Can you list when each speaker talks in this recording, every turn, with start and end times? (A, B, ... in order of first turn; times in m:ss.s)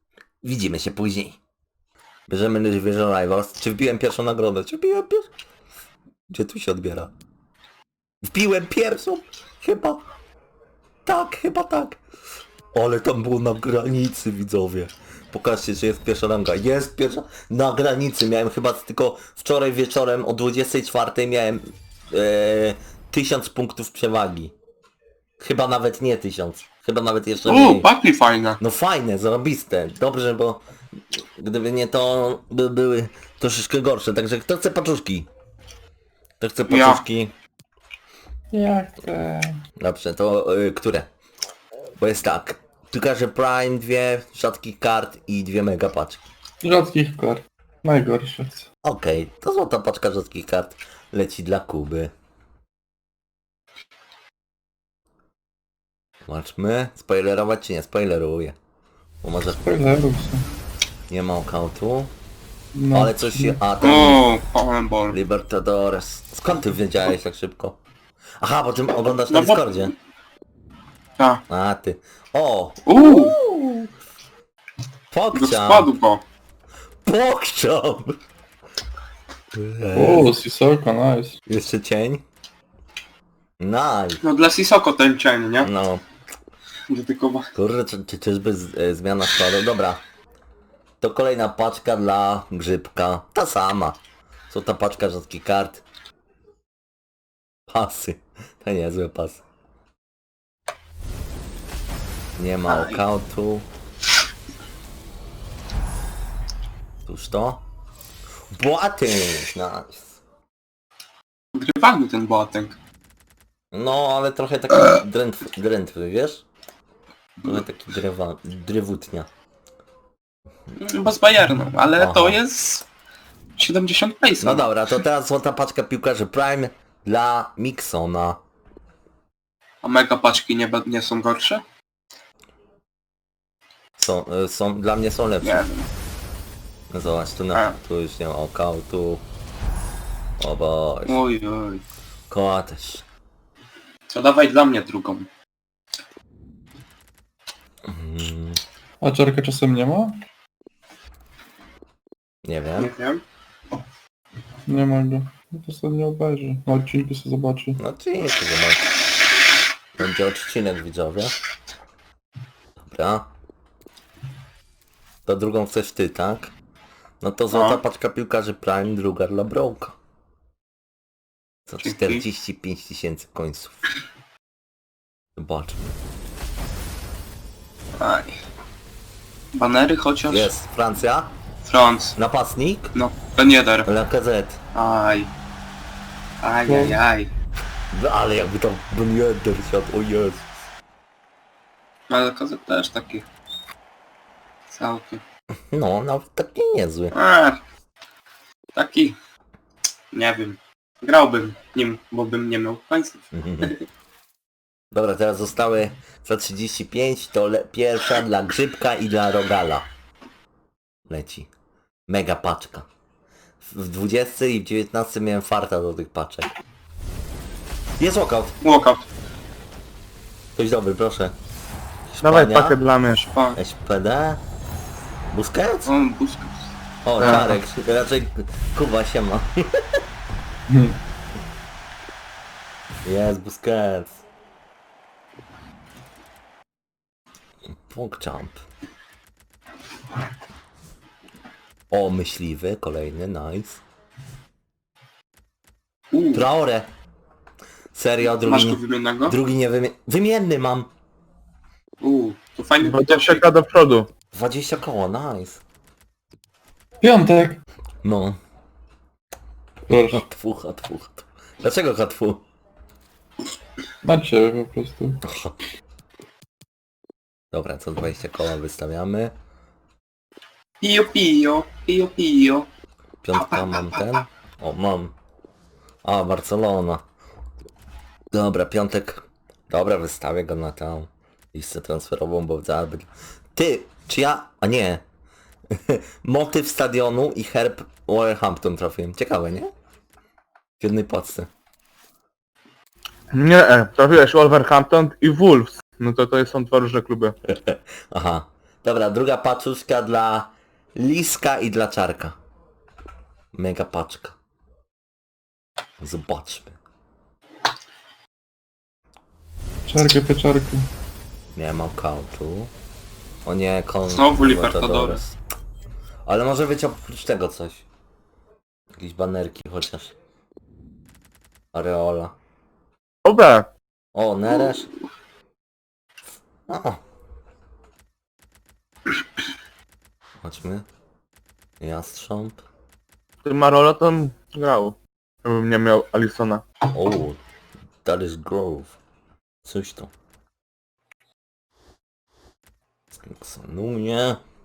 0:00.4-0:01.4 A
0:02.3-0:05.3 A
0:06.3-0:07.1 A
0:08.2-0:10.0 A
0:11.1-0:12.0 A
0:12.7-0:24.5 A
0:25.4-0:27.9 A
0:27.5-0:28.6 B
0:28.6-0:35.3 A
0:36.4-0:37.3 A
0:36.7-0:37.0 B
0:38.5-0:39.6 C
0:39.8-0:41.1 A
0:42.0-0:46.3 A
0:46.6-0:48.7 C
0:48.8-0:52.1 A
0:56.3-0:58.6 A
0:59.2-1:00.0 A
0:59.5-1:00.5 C
1:01.1-1:02.1 A
1:02.8-1:03.6 C
1:02.9-1:04.2 A
1:03.8-1:05.2 B
1:05.1-1:07.8 A
1:08.4-1:09.9 A
1:09.3-1:09.9 B
1:11.5-1:13.9 A
1:12.9-1:13.4 B
1:15.1-1:15.9 A
1:15.3-1:16.2 B
1:17.0-1:18.2 A
1:19.6-1:20.3 A
1:19.9-1:21.4 C
1:21.5-1:22.2 A
1:23.6-1:24.2 A
1:24.2-1:25.7 B
1:25.6-1:26.0 A
1:26.9-1:27.5 B
1:27.5-1:30.0 A
1:31.0-1:34.0 A
1:34.5-1:35.8 A
1:37.7-1:39.4 A
1:42.4-1:43.7 A
1:42.7-1:43.0 B
1:47.1-1:47.6 A
1:48.5-1:50.2 A
1:51.6-1:52.8 B
1:53.7-1:56.4 A
1:57.4-1:59.3 A
2:00.8-2:02.8 B
2:02.0-2:02.4 A
2:03.6-2:04.7 B
2:04.4-2:08.4 A
2:09.8-2:11.6 B
2:14.0-2:15.6 A
2:15.4-2:15.9 B
2:16.9-2:19.2 A
2:20.4-2:21.2 A
2:21.1-2:21.8 B
2:22.3-2:23.0 A
2:24.1-2:25.3 B
2:27.9-2:28.6 A
2:29.0-2:30.2 C
2:32.4-2:32.9 A
2:32.8-2:33.2 B
2:34.7-2:37.8 C
2:37.8-2:38.9 A
2:40.0-2:41.4 A
2:42.8-2:43.3 A
2:45.3-2:46.5 A
2:47.2-2:50.0 A
2:47.5-2:47.8 B
2:51.7-2:53.8 A
2:51.8-2:52.2 B
2:55.4-2:56.0 A
2:58.0-2:58.3 B
2:59.5-3:00.5 B
3:00.3-3:01.3 A
3:01.6-3:02.2 B
3:02.2-3:02.9 A
3:02.9-3:03.9 B
3:03.8-3:04.6 A
3:04.7-3:05.3 B
3:06.4-3:07.3 B
3:06.7-3:07.0 C
3:07.9-3:10.5 A
3:12.1-3:13.2 B
3:14.7-3:15.2 B
3:15.7-3:17.1 A
3:17.1-3:17.6 B
3:18.8-3:19.2 B
3:20.1-3:23.8 B
3:23.3-3:23.7 A
3:24.9-3:29.9 A
3:31.1-3:31.5 A
3:32.1-3:32.9 A
3:33.6-3:36.5 A
3:38.0-3:38.6 A
3:38.6-3:39.0 B
3:40.6-3:41.4 A
3:42.1-3:42.8 A
3:42.2-3:43.3 D
3:43.3-3:43.6 B
3:43.6-3:44.4 A
3:45.3-3:45.9 A
3:45.9-3:46.6 B
3:47.0-3:49.8 A
3:47.2-3:47.5 B
3:50.7-3:51.0 C
3:53.0-3:54.2 A
3:57.9-3:58.6 A
4:01.9-4:03.8 A
4:06.1-4:06.4 B
4:06.3-4:06.9 A
4:07.9-4:10.9 A
4:08.4-4:09.4 B
4:12.0-4:13.5 B
4:12.8-4:14.1 D
4:14.3-4:15.6 A
4:17.0-4:17.6 C
4:18.0-4:18.4 A
4:19.9-4:20.2 C
4:20.0-4:22.4 A
4:24.0-4:25.2 C
4:25.2-4:25.6 A
4:27.5-4:29.3 A
4:30.8-4:32.7 B
4:33.2-4:35.2 A
4:33.3-4:34.1 B
4:36.0-4:37.0 A
4:38.3-4:45.0 A
4:45.7-4:49.7 A
4:50.8-4:51.5 A
4:53.3-4:57.3 D
4:57.5-5:02.4 A
5:03.5-5:04.4 A
5:06.0-5:06.8 A
5:09.9-5:10.9 C
5:11.6-5:12.7 A
5:13.5-5:15.4 A
5:14.1-5:15.2 B
5:16.3-5:17.9 A
5:19.0-5:20.2 A
5:21.7-5:22.4 A
5:23.2-5:23.7 D
5:24.1-5:24.9 A
5:26.7-5:27.0 A
5:30.4-5:30.9 A
5:31.8-5:32.6 A
5:33.4-5:36.6 D
5:36.9-5:37.4 A
5:38.0-5:39.0 A
5:39.6-5:40.1 A
5:43.1-5:44.4 A